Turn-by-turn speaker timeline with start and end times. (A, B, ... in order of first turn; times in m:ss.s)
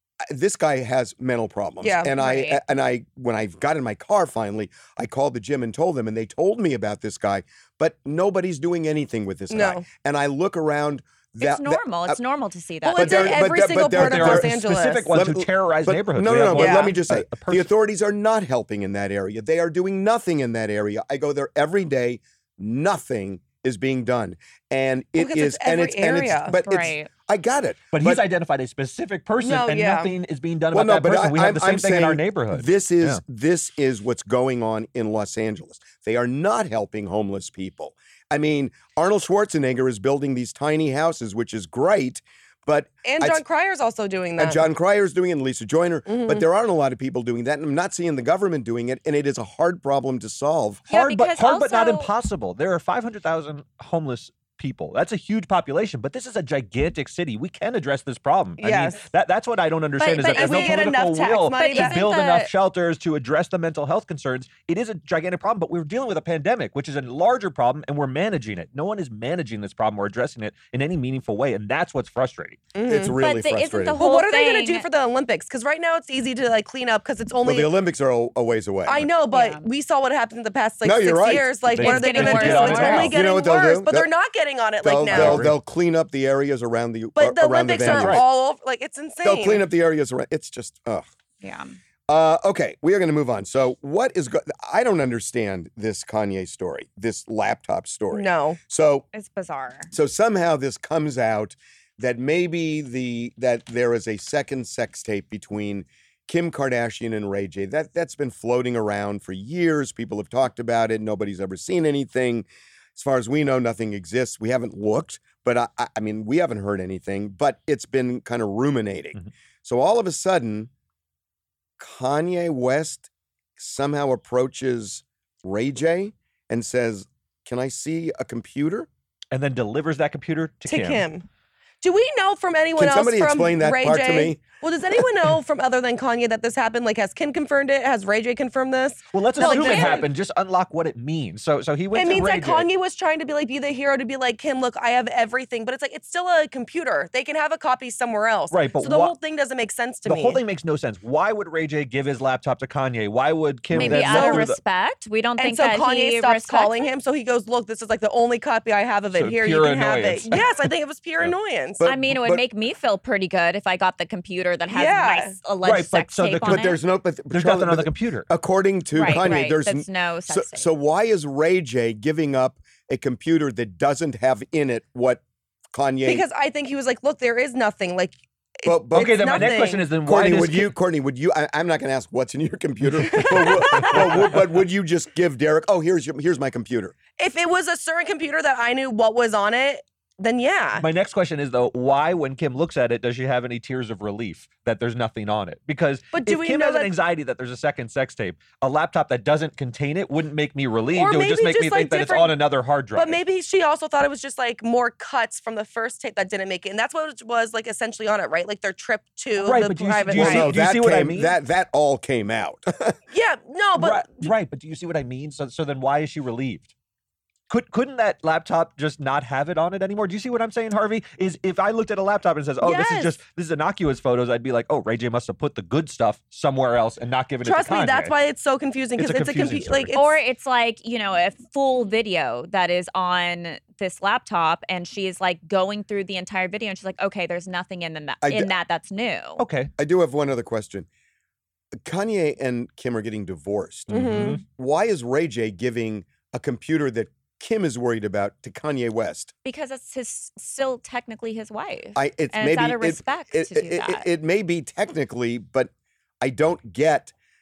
0:00.2-0:12.2 A
0:01.8-0:02.1 B
0:02.2-0:02.6 C
0:09.5-0:09.8 B
0:11.4-0:13.6 C
0:12.8-0:15.0 B
0:12.9-0:14.6 A
0:13.9-0:17.7 D
0:15.1-0:28.3 A
0:16.5-0:16.9 B
0:25.2-0:26.6 B
0:26.6-0:27.1 C
0:27.9-0:33.2 D
0:29.4-0:30.1 B
0:30.7-0:43.4 A
0:43.0-0:44.6 B
0:44.4-0:50.8 A
0:46.1-0:46.4 B
0:50.9-0:52.1 C
0:50.9-1:12.6 D
0:58.6-0:59.1 B
1:00.0-1:02.0 B
1:00.0-1:00.8 C
1:01.5-1:02.5 C
1:12.7-1:13.1 B
1:12.8-1:14.0 A
1:13.2-1:14.8 C
1:14.0-1:17.7 B
1:17.4-1:19.1 A
1:18.8-1:25.5 B
1:19.3-1:19.6 C
1:20.8-1:21.6 A
1:21.7-1:23.2 D
1:21.8-1:23.1 C
1:22.4-1:24.1 A
1:24.8-1:28.2 A
1:25.1-1:25.6 D
1:27.2-1:29.6 B
1:27.8-1:28.2 D
1:29.2-1:31.1 A
1:31.4-1:31.7 C
1:32.1-1:39.0 A
1:38.1-1:38.6 B
1:39.1-1:39.9 C
1:39.9-2:00.7 A
2:01.8-2:08.9 A
2:09.3-2:11.0 D
2:10.7-2:11.2 B
2:11.8-2:20.1 B
2:12.8-2:14.4 A
2:19.1-2:22.7 D
2:19.4-2:20.1 C
2:21.9-2:30.4 B
2:28.5-2:29.1 D
2:30.0-2:34.6 D
2:33.7-2:34.5 B
2:33.7-2:36.8 C
2:35.4-2:41.8 B
2:39.1-2:40.4 D
2:41.8-2:42.4 A
2:41.8-2:46.8 C
2:44.7-2:45.4 B
2:45.6-2:46.6 D
2:46.4-2:55.2 A
2:47.3-2:48.3 D
2:48.9-2:50.7 C
2:55.7-2:56.2 A
2:56.0-2:59.9 B
2:58.6-3:07.0 A
2:58.9-3:00.7 D
3:03.2-3:03.9 B
3:03.2-3:04.4 D
3:07.2-3:10.8 B
3:10.8-3:23.2 D
3:16.1-3:16.9 B
3:20.9-3:22.4 B
3:23.0-3:30.5 B
3:29.4-3:31.3 D
3:30.2-3:33.0 A
3:33.1-3:34.3 B
3:33.8-3:36.7 D
3:37.5-3:48.1 D
3:42.6-3:43.1 B
3:47.4-3:50.2 B
3:49.0-3:49.9 D
3:49.9-3:59.4 C
3:58.2-3:58.5 A
3:59.4-3:59.7 D
3:59.8-4:00.9 A
4:01.7-4:09.3 A
4:03.9-4:04.4 D
4:03.9-4:04.4 B
4:09.4-4:14.1 C
4:11.9-4:17.1 A